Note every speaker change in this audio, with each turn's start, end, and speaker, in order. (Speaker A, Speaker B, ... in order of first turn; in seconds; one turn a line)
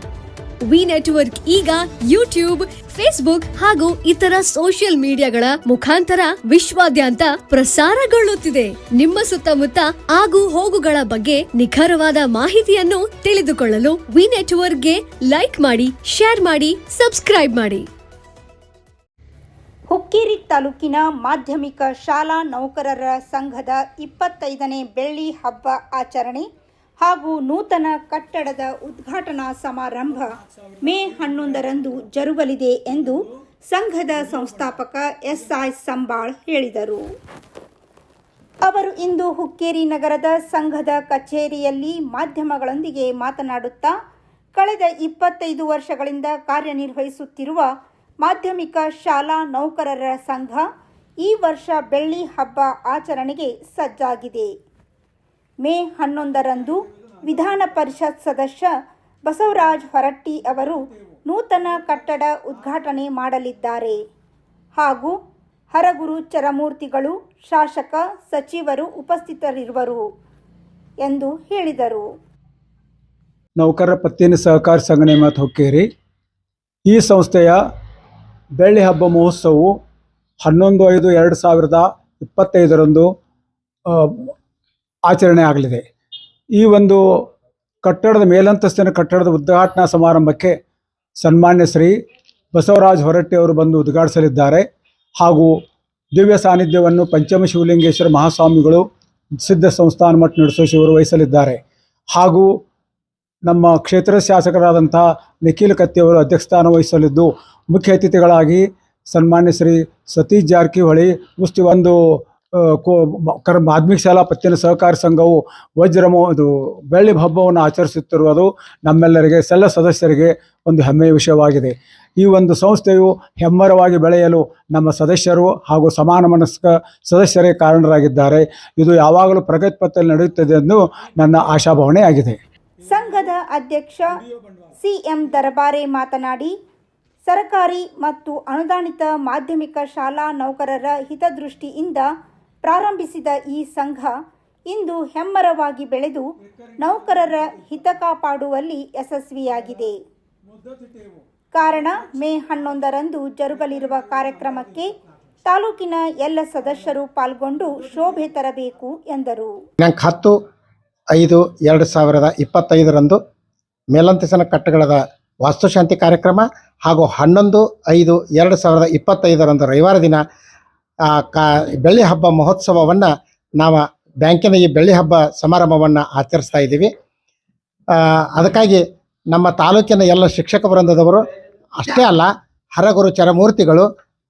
Speaker A: 0.7-17.9
Speaker B: 19.9-26.5
Speaker B: 27.0-37.0
Speaker C: 30.1-32.0
Speaker C: 32.9-33.3
Speaker C: 34.2-34.8
Speaker B: 38.6-44.0
Speaker B: 44.5-47.7
Speaker B: 48.2-50.6
Speaker B: 51.2-54.5
Speaker B: 55.6-58.7
Speaker C: 56.7-57.6
Speaker B: 59.2-64.0
Speaker B: 64.8-65.2
Speaker B: 65.7-70.1
Speaker B: 71.0-72.1
Speaker C: 73.6-75.9
Speaker C: 76.9-77.6
Speaker C: 78.6-79.8
Speaker C: 80.4-83.1
Speaker C: 83.9-84.3
Speaker C: 85.1-85.8
Speaker C: 86.5-87.3
Speaker C: 87.8-90.6
Speaker C: 91.2-92.0
Speaker C: 92.5-95.6
Speaker C: 96.1-101.6
Speaker C: 102.1-102.6
Speaker C: 103.5-133.3
Speaker B: 132.8-134.2
Speaker C: 134.1-134.8
Speaker B: 134.8-136.5
Speaker B: 137.2-142.1
Speaker B: 142.6-144.1
Speaker B: 144.7-146.3
Speaker C: 146.4-148.0
Speaker B: 146.8-150.0
Speaker C: 150.4-152.8
Speaker B: 151.5-154.9
Speaker C: 153.5-155.0
Speaker B: 155.4-159.5
Speaker C: 157.6-158.3
Speaker D: 159.8-160.3
Speaker D: 161.1-163.2
Speaker D: 163.9-170.2
Speaker D: 171.1-176.9
Speaker D: 177.9-181.2
Speaker D: 181.8-183.9